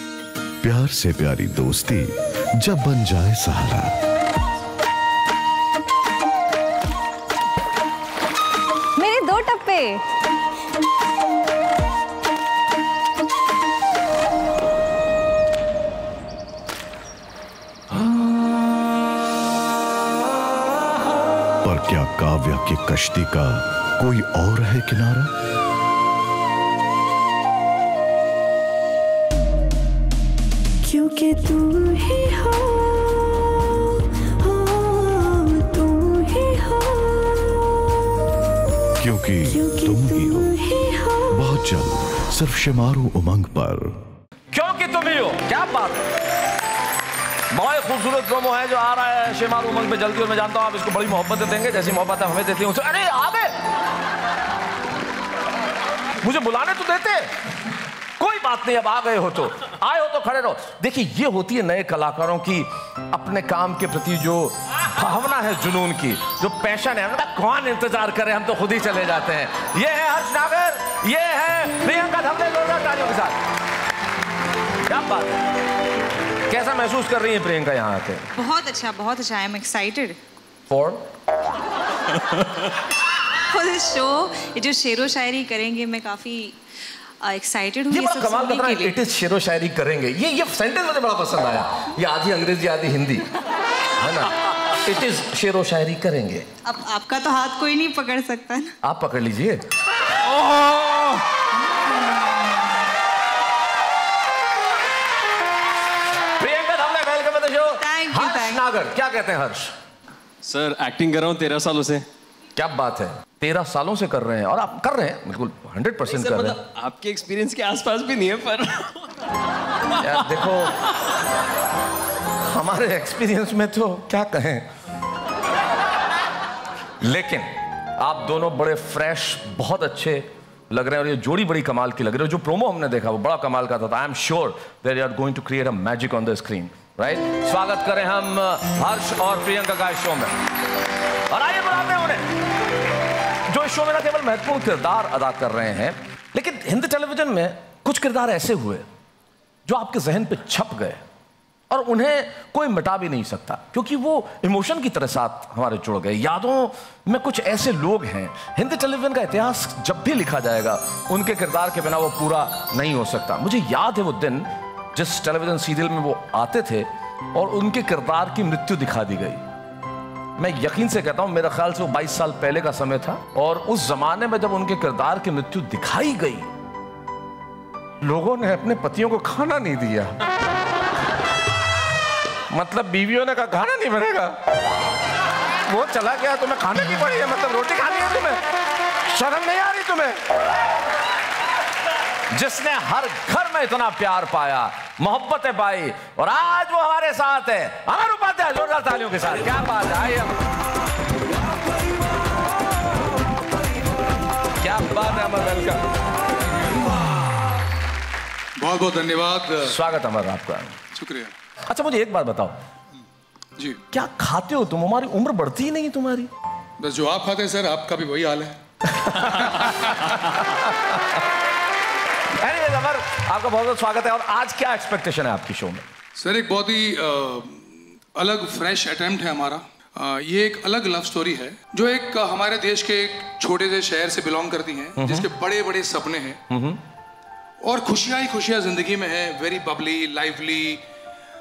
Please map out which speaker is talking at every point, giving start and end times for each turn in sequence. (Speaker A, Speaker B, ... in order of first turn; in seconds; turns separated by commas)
Speaker A: 0.6-3.9, Speaker B: 9.0-10.0, Speaker A: 21.6-25.3, Speaker C: 30.8-33.8, Speaker C: 34.4-37.7, Speaker A: 39.0-40.5, Speaker C: 39.4-41.5, Speaker A: 41.3-44.0, Speaker D: 44.5-46.1, Speaker D: 47.5-53.5, Speaker D: 56.2-57.3, Speaker D: 58.2-73.4, Speaker D: 74.8-75.4, Speaker D: 76.5-78.2, Speaker B: 78.3-80.2, Speaker D: 80.7-81.0, Speaker B: 83.5-86.6, Speaker B: 87.2-88.9, Speaker D: 87.9-93.3, Speaker D: 94.0-96.5, Speaker B: 96.6-98.7, Speaker D: 98.8-99.6, Speaker D: 100.5-101.1, Speaker D: 106.4-109.8, Speaker B: 107.8-108.6, Speaker E: 110.4-112.0, Speaker D: 112.5-116.6, Speaker E: 116.1-119.0, Speaker D: 120.0-120.7, Speaker E: 120.1-120.4, Speaker D: 122.4-124.7, Speaker D: 127.0-140.3, Speaker D: 141.3-142.2, Speaker D: 143.5-148.8, Speaker D: 149.7-151.0, Speaker D: 151.7-169.4, Speaker D: 170.4-176.5, Speaker D: 178.0-180.2, Speaker D: 182.5-184.4, Speaker D: 185.7-188.4, Speaker D: 189.1-190.2, Speaker D: 192.3-200.4, Speaker D: 204.6-205.9, Speaker F: 208.6-209.8, Speaker D: 209.6-210.8, Speaker F: 210.9-211.3, Speaker D: 211.7-212.6, Speaker D: 213.9-216.3, Speaker F: 216.8-218.6, Speaker D: 218.8-221.2, Speaker D: 222.4-225.8, Speaker F: 226.2-236.4, Speaker D: 234.9-235.3, Speaker D: 236.5-236.8, Speaker F: 237.6-240.8